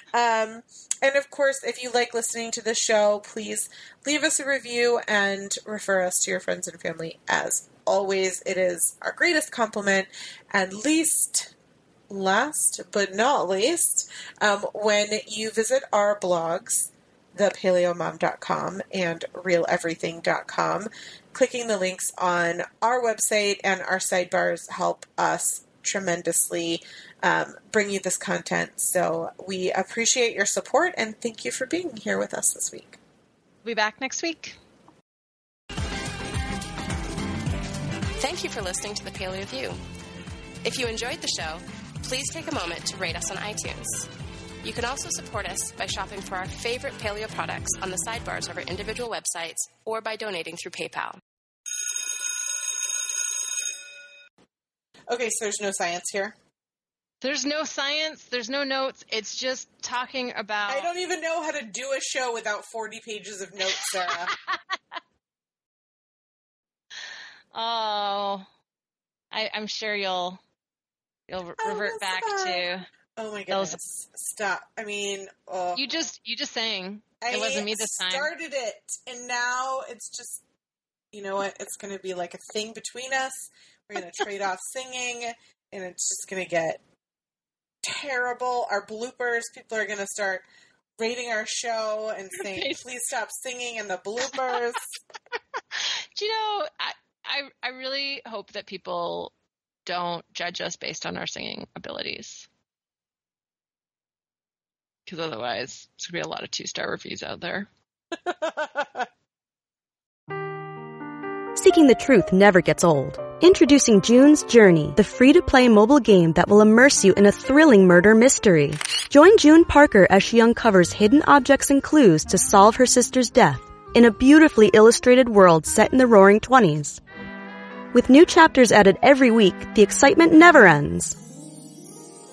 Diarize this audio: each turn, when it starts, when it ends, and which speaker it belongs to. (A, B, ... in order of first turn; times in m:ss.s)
0:00.1-0:11.5 A
0:12.1-0:33.0 A
0:33.6-0:34.6 B
0:38.2-0:39.8 C
0:40.6-0:44.1 C
0:44.6-0:51.2 C
0:55.1-0:56.3 A
0:57.2-1:00.9 B
1:00.7-1:04.3 A
1:03.8-1:04.8 B
1:07.5-1:08.4 B
1:09.3-1:10.4 B
1:11.3-1:12.9 B
1:11.6-1:16.0 A
1:13.5-1:13.8 B
1:15.7-1:18.3 B
1:17.2-1:20.4 A
1:21.1-1:26.8 A
1:27.8-1:30.4 A
1:31.0-1:35.0 A
1:32.4-1:32.8 B
1:35.8-1:39.3 B
1:39.8-1:42.5 B
1:45.1-1:47.7 B
1:48.4-1:49.0 A
1:51.5-2:07.0 D
2:07.9-2:11.2 D